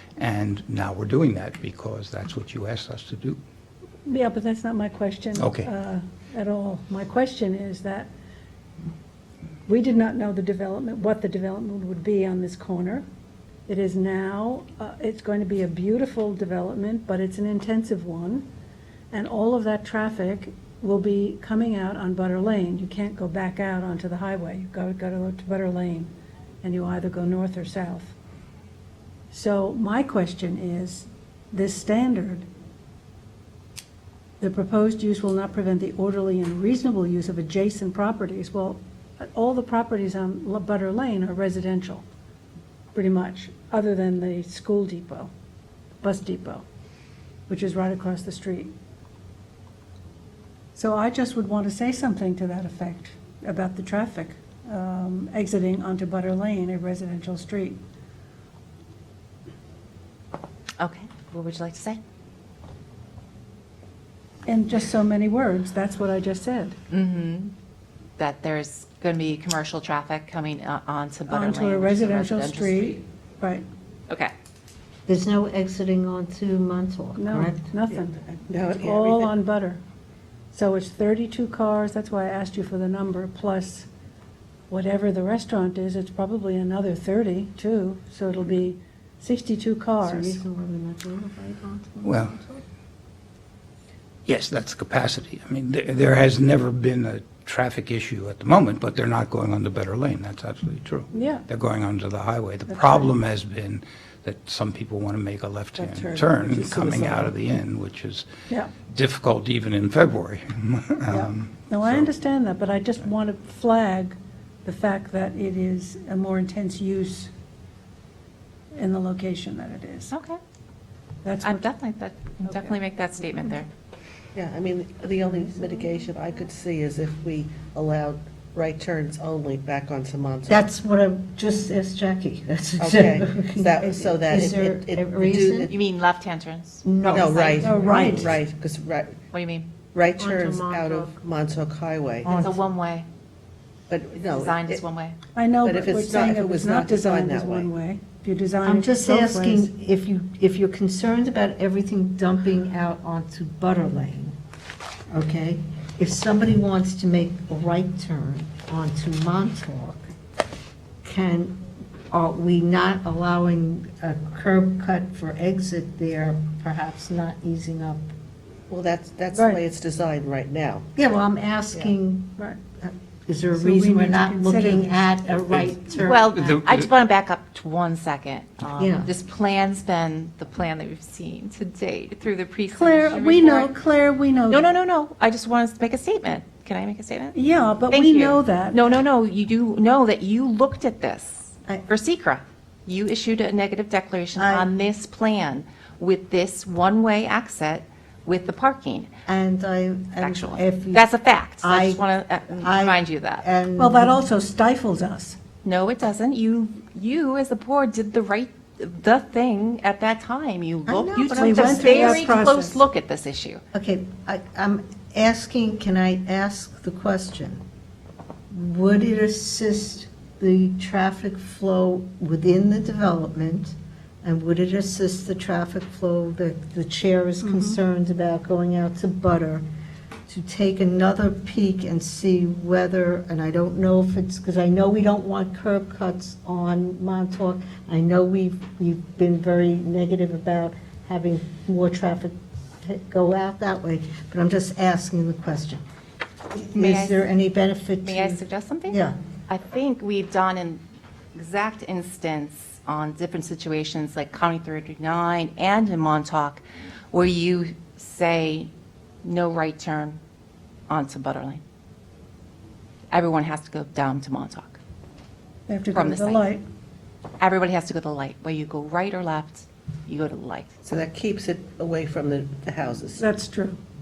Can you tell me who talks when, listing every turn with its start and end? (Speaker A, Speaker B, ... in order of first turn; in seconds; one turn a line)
Speaker A: 0.2-3.4
Speaker B: 4.0-8.1
Speaker A: 5.4-5.7
Speaker B: 9.7-13.1
Speaker B: 13.7-18.5
Speaker B: 19.1-28.1
Speaker B: 29.3-32.5
Speaker B: 34.4-42.0
Speaker B: 42.9-45.3
Speaker B: 46.0-46.6
Speaker B: 47.5-48.7
Speaker B: 50.7-57.8
Speaker C: 60.8-62.0
Speaker B: 64.5-66.8
Speaker C: 66.9-67.5
Speaker C: 68.2-73.0
Speaker B: 71.3-73.7
Speaker D: 75.1-77.7
Speaker B: 77.2-79.8
Speaker E: 77.9-79.3
Speaker B: 80.5-83.9
Speaker B: 84.7-90.4
Speaker D: 90.0-92.6
Speaker A: 92.0-92.4
Speaker A: 94.2-108.3
Speaker B: 101.1-101.4
Speaker B: 102.7-103.1
Speaker E: 105.8-107.3
Speaker A: 108.9-112.1
Speaker B: 111.1-117.3
Speaker B: 118.7-120.1
Speaker C: 120.1-120.4
Speaker B: 121.2-121.7
Speaker C: 121.4-123.7
Speaker B: 122.4-122.8
Speaker E: 124.3-130.7
Speaker D: 130.5-135.7
Speaker E: 132.8-135.7
Speaker C: 135.7-137.9
Speaker D: 136.8-138.4
Speaker E: 137.1-139.2
Speaker B: 137.6-138.3
Speaker C: 139.3-139.7
Speaker E: 139.9-142.3
Speaker D: 140.2-141.2
Speaker D: 142.2-142.7
Speaker C: 142.3-143.1
Speaker E: 143.9-144.8
Speaker C: 144.3-145.2
Speaker B: 145.3-149.7
Speaker E: 145.6-147.7
Speaker D: 148.6-154.4
Speaker D: 155.1-160.1
Speaker D: 161.0-168.1
Speaker E: 168.7-170.9
Speaker D: 170.9-176.2
Speaker B: 173.6-174.9
Speaker C: 176.0-183.7
Speaker A: 176.3-176.9
Speaker D: 178.8-179.1
Speaker B: 182.7-184.6
Speaker C: 184.5-187.4
Speaker B: 187.3-188.8
Speaker C: 187.9-199.1
Speaker D: 194.3-194.7
Speaker D: 199.2-204.2
Speaker C: 200.2-203.4
Speaker B: 203.8-205.4
Speaker C: 205.6-213.6
Speaker D: 210.9-212.2
Speaker B: 211.3-212.8
Speaker D: 213.7-217.6
Speaker D: 218.5-229.7
Speaker D: 230.3-245.8
Speaker D: 246.5-249.2
Speaker C: 246.7-247.3
Speaker C: 248.0-250.8
Speaker C: 251.3-258.7
Speaker C: 259.2-260.2
Speaker C: 260.9-261.6
Speaker C: 263.1-264.8
Speaker B: 265.7-266.6
Speaker C: 265.9-266.5
Speaker C: 267.4-270.9
Speaker E: 270.9-273.3
Speaker B: 273.2-273.8